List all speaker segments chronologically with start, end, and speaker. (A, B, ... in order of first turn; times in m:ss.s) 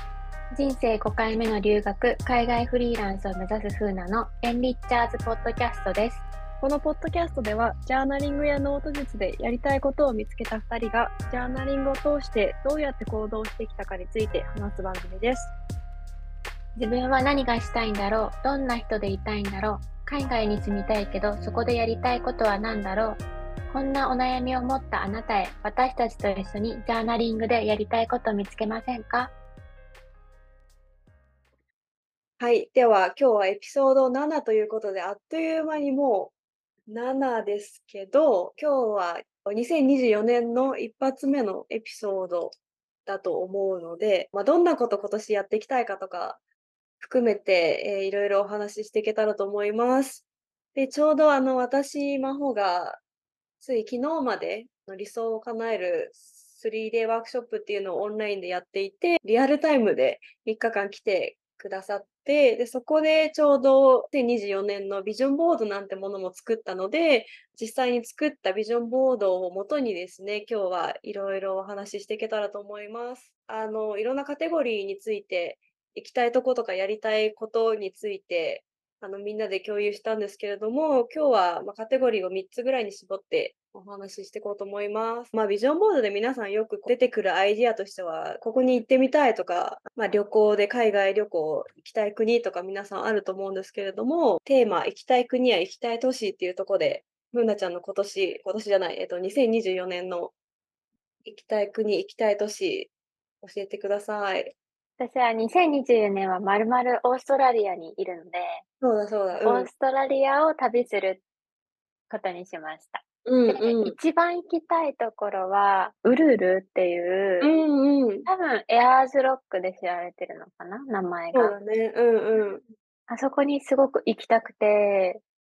0:00.5-0:06.2 A
0:06.6-0:15.5 B
0:16.8-0:29.3 A
0:32.4-0:36.3 B
0:36.9-0:42.5 B
0:43.0-0:46.4 B
0:47.0-0:53.0 B
0:53.6-1:40.3 B
1:41.2-1:42.9 B
1:43.4-1:44.6 B
1:45.0-1:48.6 A
1:48.8-1:49.7 B
1:49.4-1:51.2 A
1:52.1-1:57.5 A
1:53.2-1:54.0 B
1:57.4-1:58.3 B
1:58.2-2:01.5 A
2:01.3-2:02.6 B
2:03.1-2:05.2 A